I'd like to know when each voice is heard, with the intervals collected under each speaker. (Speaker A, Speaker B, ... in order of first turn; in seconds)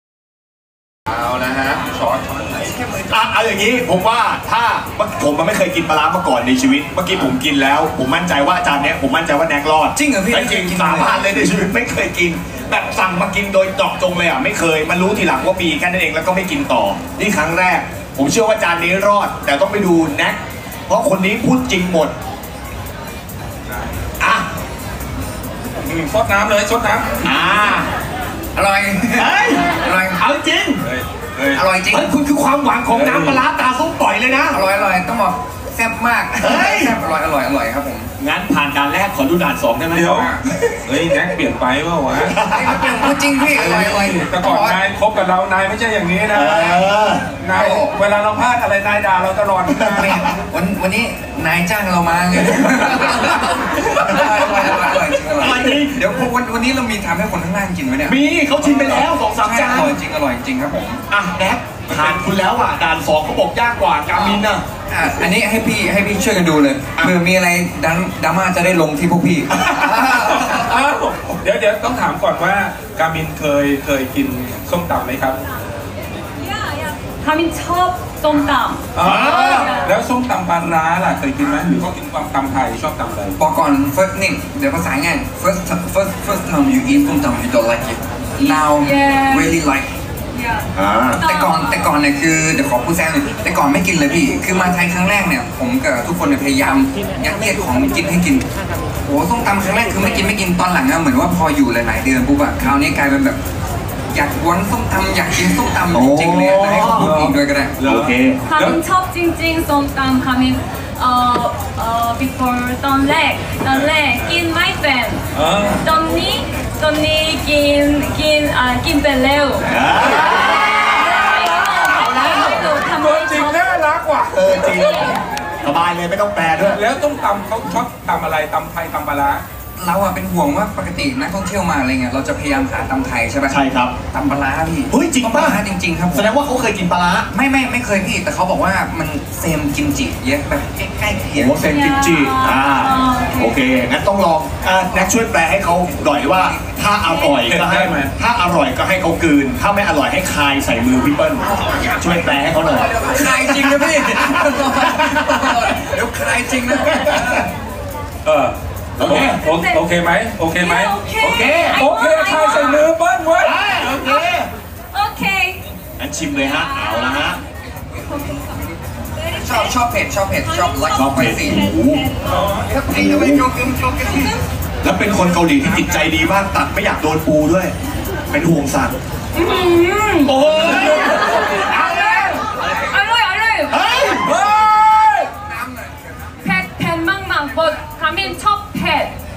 Speaker A: 1.1-3.1, 9.9-11.5, 28.5-30.2, 31.5-32.1, 34.5-38.1, 42.4-44.8, 47.5-47.9, 49.8-61.0, 64.9-70.8, 83.4-89.9, 91.1-98.4, 99.0-103.4, 104.1-107.8, 129.8-133.6, 134.1-136.3, 137.3-141.6, 145.9-147.6, 151.5-157.5, 169.3-171.7, 172.5-174.3, 182.0-182.4, 185.5-185.9
Speaker B: 3.1-22.1, 24.2-24.5, 27.2-27.9, 29.1-30.8, 31.9-34.6, 36.4-37.0, 38.2-40.3, 42.2-43.1, 46.3-47.3, 49.7-50.1, 53.9-54.8, 55.3-56.0, 58.0-60.0, 61.1-64.6, 79.0-79.7, 90.7-91.2, 105.9-107.3, 107.8-108.4, 119.6-122.7, 124.3-126.8, 133.5-134.0, 134.9-135.6, 136.1-137.3, 141.3-153.9, 155.0-155.4, 156.9-157.4, 159.0-159.4, 161.2-161.8, 163.4-164.5, 166.0-167.4, 170.9-172.1, 172.9-173.5, 174.8-177.7, 178.3-178.9, 180.3-181.3, 183.7-184.3
Speaker C: 25.8-27.1, 30.8-31.6, 32.9-33.4, 39.9-40.3, 40.8-42.4, 43.5-50.2, 61.9-62.2, 69.6-75.4, 78.9-83.4, 106.9-108.8, 115.3-115.8, 122.8-125.1, 126.7-129.4, 147.4-148.1, 158.2-161.0, 161.7-163.6, 172.3-172.7, 180.3-181.6, 184.2-185.3
Speaker D: 76.4-79.9, 88.8-89.5, 90.3-91.9, 108.5-115.3, 115.8-123.7, 141.6-143.6, 159.2-159.8, 160.5-162.9, 163.8-164.4, 164.9-165.6, 166.3-167.4, 168.2-168.4, 169.1-169.7, 170.4-172.1, 179.3-183.9, 186.4-189.1